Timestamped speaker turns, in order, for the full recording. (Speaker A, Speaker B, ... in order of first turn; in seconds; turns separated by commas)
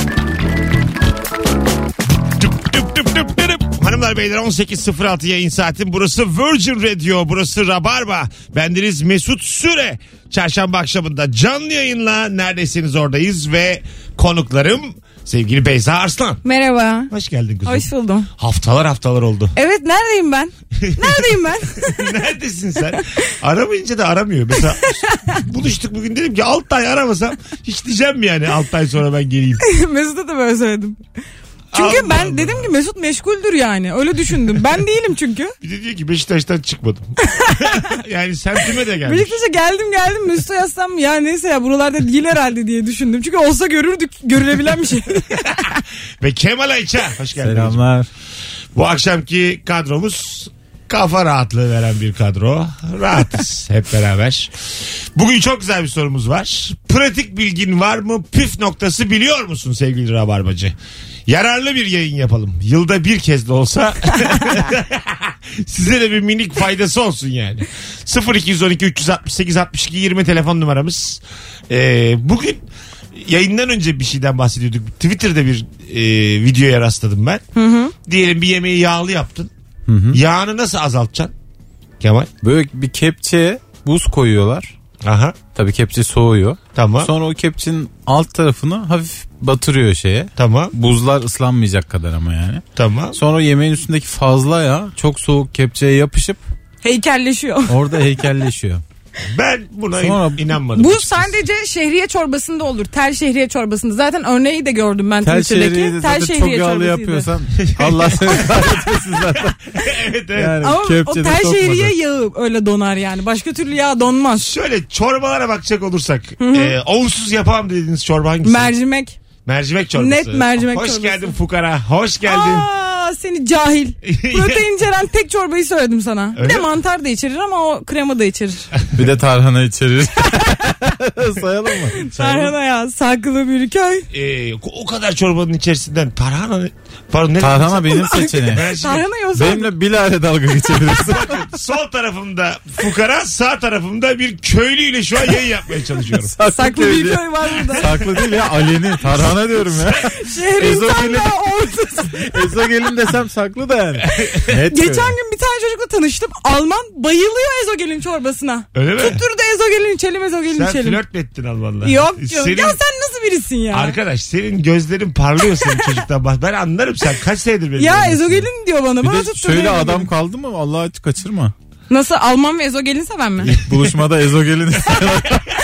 Speaker A: 2.3-16.4, Speaker B: 16.4-17.1, Speaker A: 17.1-19.5, Speaker B: 17.6-18.3, Speaker B: 19.5-22.1, Speaker A: 20.8-29.6, Speaker B: 24.6-25.4, Speaker B: 29.6-31.0, Speaker A: 31.7-32.7, Speaker B: 31.7-35.5, Speaker A: 35.6-39.4, Speaker B: 37.3-37.9, Speaker B: 39.0-45.7, Speaker A: 45.6-47.8, Speaker C: 47.4-48.1, Speaker A: 48.7-54.5, Speaker A: 55.1-60.7, Speaker A: 61.3-77.4, Speaker B: 77.5-77.9, Speaker A: 78.0-79.5, Speaker C: 79.9-80.2, Speaker A: 80.1-81.3, Speaker A: 82.0-82.3, Speaker C: 82.4-84.7, Speaker A: 85.0-85.4, Speaker C: 85.5-92.6, Speaker A: 86.7-87.1, Speaker A: 90.4-90.7, Speaker A: 92.8-93.2, Speaker C: 93.1-96.4, Speaker B: 96.8-97.7, Speaker C: 97.7-98.8, Speaker A: 99.3-101.4, Speaker C: 100.0-100.4, Speaker B: 100.7-107.3, Speaker C: 105.2-109.5, Speaker A: 107.6-108.6, Speaker A: 109.7-110.6, Speaker C: 110.3-111.9, Speaker B: 110.6-114.5, Speaker A: 114.3-118.7, Speaker B: 116.4-116.7, Speaker B: 118.4-119.2, Speaker A: 119.5-122.7, Speaker B: 119.9-121.3, Speaker B: 122.2-128.7, Speaker A: 124.0-124.6, Speaker A: 126.3-126.7, Speaker C: 128.9-132.5, Speaker B: 131.9-134.1, Speaker A: 134.1-139.1, Speaker C: 137.4-138.6, Speaker B: 137.9-139.7, Speaker C: 139.3-141.3, Speaker A: 141.1-146.3, Speaker C: 146.2-151.3, Speaker B: 146.5-147.9, Speaker B: 150.1-152.4, Speaker C: 152.2-155.2, Speaker B: 154.7-161.0, Speaker A: 158.7-159.2, Speaker A: 160.5-162.8, Speaker B: 161.8-164.0, Speaker A: 163.7-168.5, Speaker B: 167.8-170.1, Speaker C: 169.0-171.5, Speaker B: 171.9-173.6, Speaker C: 173.4-175.5